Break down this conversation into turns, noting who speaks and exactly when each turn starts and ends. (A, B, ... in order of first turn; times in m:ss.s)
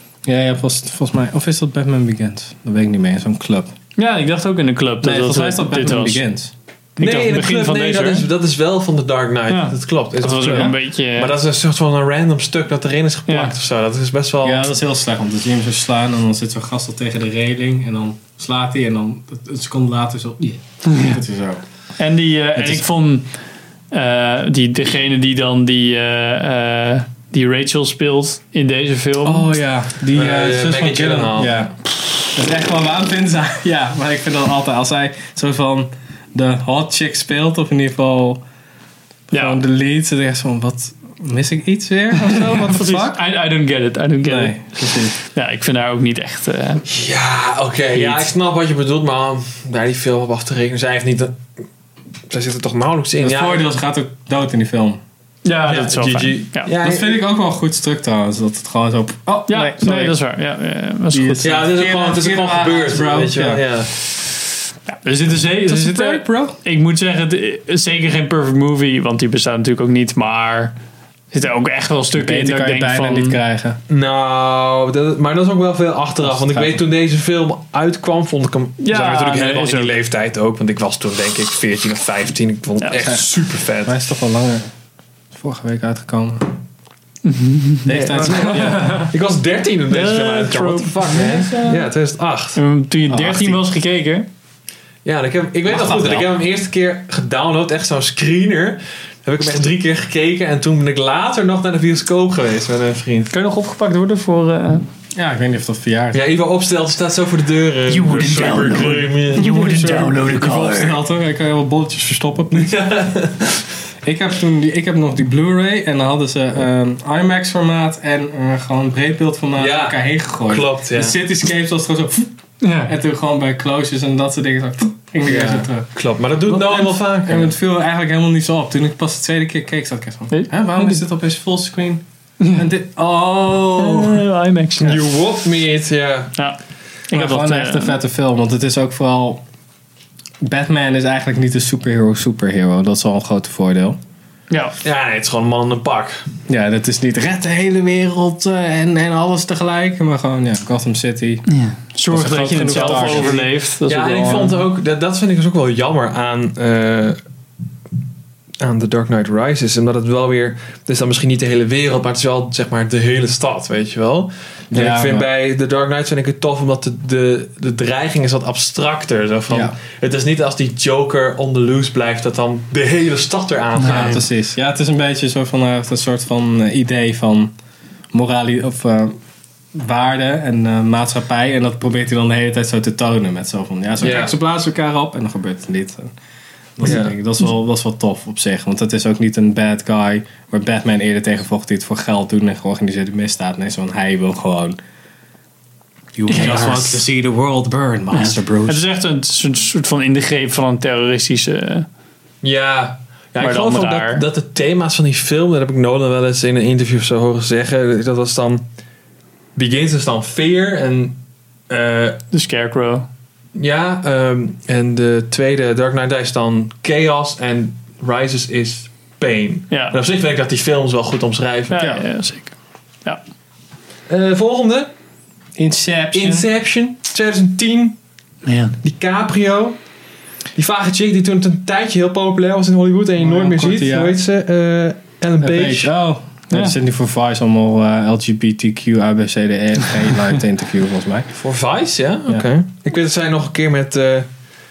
0:00.2-0:03.7 A
0:04.0-0:06.2 B
0:05.0-0:06.5 A
0:07.0-0:08.3 B
0:07.0-0:14.6 C
0:09.5-0:11.4 B
0:13.3-0:13.5 B
0:14.4-0:21.6 A
0:20.9-0:21.2 B
0:22.0-0:23.3 B
0:22.6-0:22.8 A
0:23.9-0:29.5 B
0:29.2-0:38.4 A
0:30.1-0:31.6 C
0:39.3-0:43.2 A
0:39.3-0:39.6 B
0:42.2-0:46.8 B
0:44.2-0:45.1 A
0:46.9-0:51.4 C
0:47.9-0:48.3 B
0:52.3-0:53.7 C
0:53.2-0:55.0 A
0:55.4-0:56.7 B
0:55.6-0:57.2 C
0:56.8-1:00.2 A
0:59.5-1:01.5 B
1:01.1-1:03.6 A
1:01.4-1:03.9 C
1:04.9-1:10.8 B
1:05.6-1:06.6 A
1:11.3-1:13.4 B
1:12.1-1:13.8 A
1:13.9-1:24.0 C
1:16.2-1:16.8 A
1:18.8-1:20.0 B
1:23.0-1:23.3 A
1:23.8-1:24.7 A
1:25.3-1:26.5 A
1:27.2-1:29.1 B
1:27.9-1:29.1 A
1:27.9-1:32.6 C
1:29.9-1:31.9 B
1:32.6-1:34.3 B
1:33.1-1:33.6 A
1:35.0-1:43.3 C
1:35.7-1:36.3 A
1:43.3-1:44.8 B
1:45.2-1:46.2 A
1:46.1-1:49.5 C
1:47.9-1:51.0 B
1:49.4-1:52.8 A
1:52.5-1:53.6 C
1:54.0-2:02.3 A
1:59.6-2:01.2 C
2:02.6-2:02.9 B
2:02.8-2:05.9 A
2:05.2-2:07.5 C
2:06.5-2:12.0 A
2:10.3-2:11.0 B
2:12.4-2:12.7 B
2:12.6-2:14.2 A
2:13.8-2:15.1 B
2:14.8-2:16.3 C
2:17.1-2:18.0 B
2:17.1-2:19.4 A
2:20.4-2:24.0 A
2:24.5-2:24.8 B
2:24.8-2:26.2 C
2:26.5-2:31.5 A
2:31.5-2:34.6 B
2:32.1-2:33.5 A
2:32.7-2:37.2 C
2:38.6-2:54.2 C
2:44.7-2:45.3 A
2:49.5-2:49.8 A
2:53.8-2:54.2 B
2:53.8-2:57.5 A
2:58.1-2:59.2 A
2:59.7-3:06.1 A
3:04.0-3:04.4 C
3:06.8-3:14.8 A
3:06.8-3:07.1 C
3:16.1-3:18.8 A
3:16.3-3:17.0 B
3:18.1-3:21.9 B
3:22.4-3:28.6 C
3:23.4-3:24.2 B
3:29.6-3:31.2 C
3:31.7-3:32.2 C
3:32.3-3:33.1 B
3:33.6-3:41.8 C
3:39.7-3:40.0 B
3:41.7-3:42.5 B
3:41.8-3:42.0 A
3:44.1-3:44.9 C
3:45.6-3:46.5 A
3:46.1-3:48.0 C
3:48.4-3:48.8 B
3:48.8-3:49.8 C
3:50.6-3:55.9 C
3:53.2-3:54.1 A
3:55.4-4:01.3 A
3:56.5-3:56.8 B
4:01.3-4:04.3 C